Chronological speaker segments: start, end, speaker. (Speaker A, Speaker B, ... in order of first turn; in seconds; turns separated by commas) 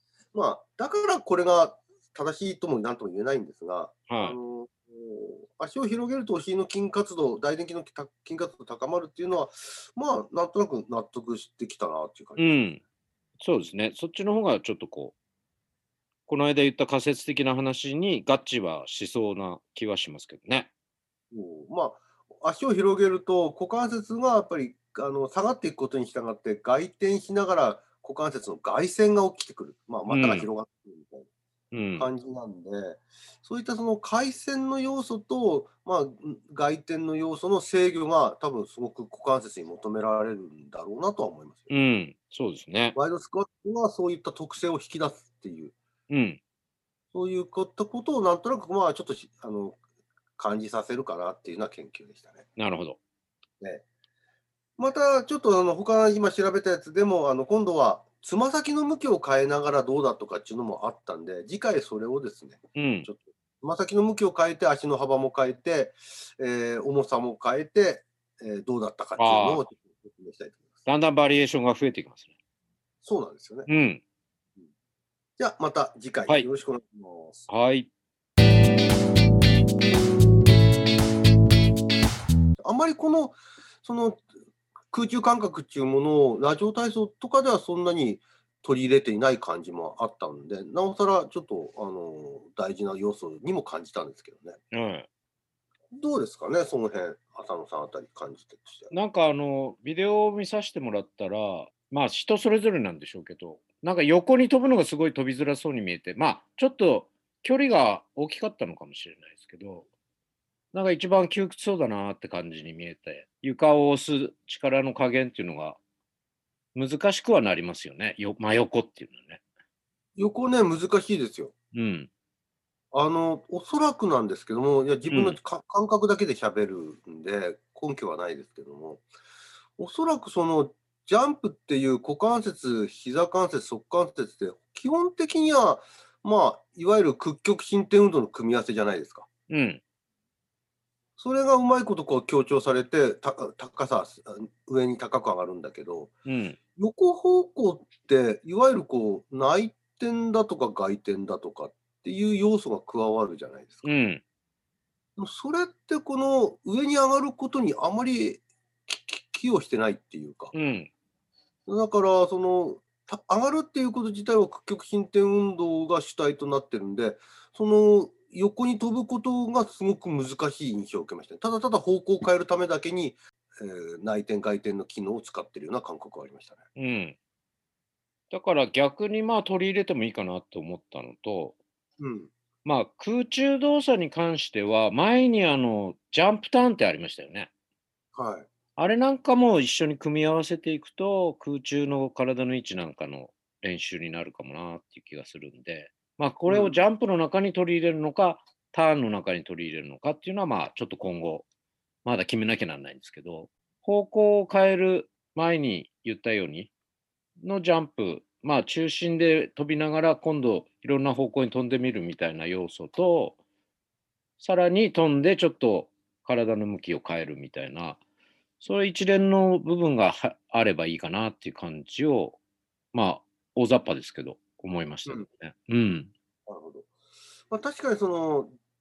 Speaker A: 0.3-12.5, Speaker B: 4.1-4.4, Speaker B: 12.4-12.8, Speaker B: 13.4-15.2, Speaker B: 16.3-20.7, Speaker A: 21.3-31.3, Speaker B: 30.1-30.5, Speaker B: 31.7-32.1, Speaker A: 32.0-41.7, Speaker B: 41.7-43.0, Speaker A: 43.0-45.8, Speaker B: 46.1-46.4, Speaker A: 47.1-49.8, Speaker A: 50.4-52.5, Speaker B: 52.6-53.0, Speaker A: 54.8-70.8, Speaker B: 62.8-63.1, Speaker B: 69.2-69.6, Speaker B: 70.9-72.3, Speaker A: 73.0-73.7, Speaker B: 73.7-74.0, Speaker A: 75.4-77.5, Speaker B: 77.5-77.9, Speaker A: 82.6-84.3, Speaker A: 84.9-94.6, Speaker B: 94.7-95.1, Speaker A: 95.9-98.9, Speaker B: 98.9-109.9, Speaker B: 110.7-115.8, Speaker B: 116.8-119.4, Speaker A: 120.2-121.5, Speaker B: 121.7-122.1, Speaker A: 122.9-129.1, Speaker B: 125.1-125.4, Speaker A: 129.8-139.3, Speaker B: 139.5-139.8, Speaker A: 141.2-146.1, Speaker B: 146.3-146.6, Speaker A: 146.8-153.9, Speaker B: 153.8-154.2, Speaker A: 155.2-160.5, Speaker B: 160.5-160.9, Speaker A: 161.7-176.6, Speaker B: 176.8-177.2, Speaker B: 178.3-181.6, Speaker A: 182.0-182.3, Speaker B: 182.7-187.5, Speaker A: 188.2-188.5, Speaker B: 188.8-201.5, Speaker A: 196.5-196.8, Speaker B: 202.1-206.7, Speaker B: 207.4-213.4, Speaker B: 214.4-218.0, Speaker B: 218.6-222.4, Speaker B: 222.9-226.1, Speaker A: 226.5-226.9, Speaker A: 227.5-228.5